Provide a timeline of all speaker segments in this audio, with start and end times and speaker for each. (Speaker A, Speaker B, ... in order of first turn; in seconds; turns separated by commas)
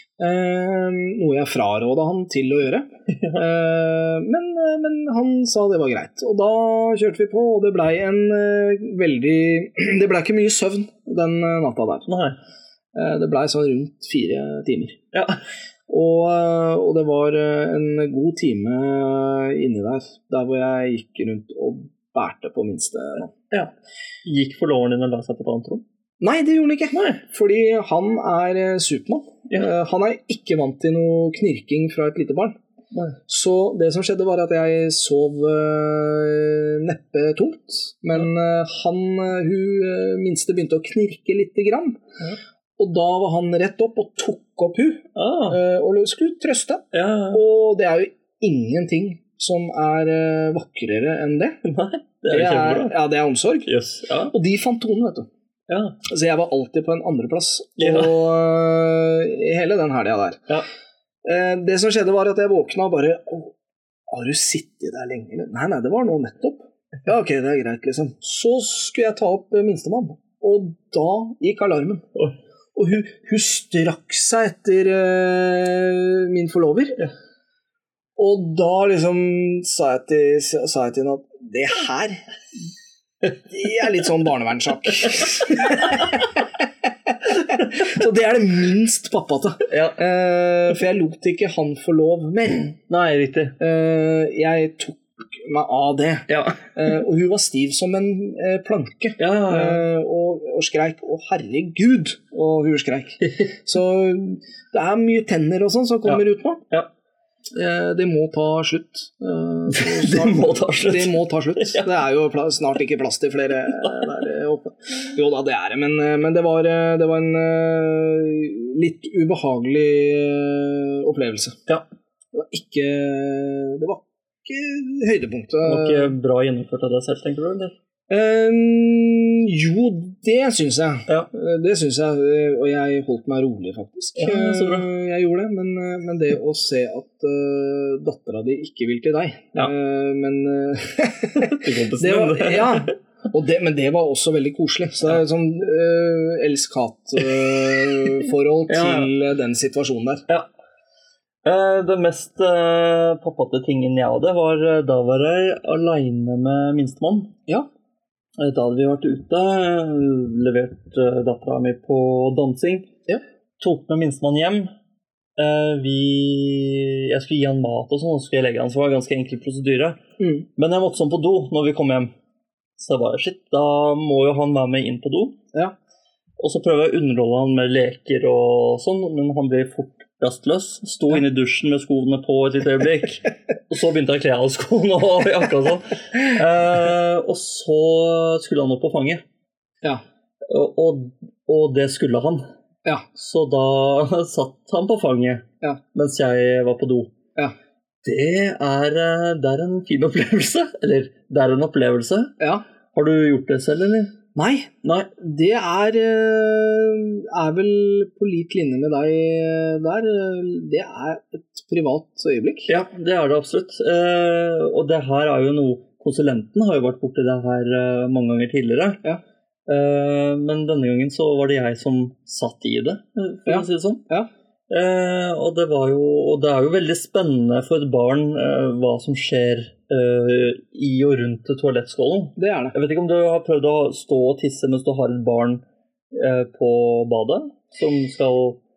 Speaker A: 0.2-12.1, Speaker B: 12.1-12.4, Speaker A: 12.9-15.0, Speaker B: 15.1-15.4, Speaker A: 15.9-23.3, Speaker B: 24.2-25.8, Speaker A: 26.2-32.6, Speaker B: 26.9-27.2, Speaker B: 32.9-33.2, Speaker A: 33.3-42.0, Speaker A: 42.8-51.6, Speaker B: 45.2-45.6, Speaker B: 46.9-47.4, Speaker B: 51.6-52.9, Speaker A: 52.3-53.7, Speaker B: 53.7-54.3, Speaker A: 54.3-55.3, Speaker B: 55.7-56.0, Speaker A: 56.1-60.4, Speaker B: 57.8-58.2, Speaker A: 61.2-63.5, Speaker A: 64.1-72.1, Speaker A: 72.8-77.0, Speaker A: 78.2-82.2, Speaker A: 83.5-86.3, Speaker A: 87.1-92.8, Speaker B: 89.7-90.0, Speaker B: 92.7-93.6, Speaker A: 93.6-106.6, Speaker B: 96.3-96.7, Speaker B: 99.2-99.8, Speaker B: 106.1-106.9, Speaker A: 107.5-121.6, Speaker B: 109.7-111.9, Speaker B: 113.7-114.2, Speaker A: 122.3-126.1, Speaker B: 125.6-127.8, Speaker A: 128.1-150.2, Speaker B: 134.2-134.9, Speaker B: 141.4-142.9, Speaker B: 147.5-149.1, Speaker B: 151.4-157.3, Speaker B: 158.4-162.9, Speaker B: 163.6-164.7, Speaker B: 165.4-170.0, Speaker A: 170.2-170.5, Speaker B: 170.6-172.1, Speaker B: 172.8-175.4, Speaker B: 176.4-189.2, Speaker B: 190.5-192.4, Speaker B: 193.2-197.1, Speaker B: 198.1-202.3, Speaker B: 202.9-204.1, Speaker A: 204.3-212.7, Speaker B: 204.8-205.1, Speaker B: 212.7-219.0, Speaker B: 219.7-224.1, Speaker A: 223.5-224.3, Speaker B: 224.7-238.6, Speaker A: 232.4-232.8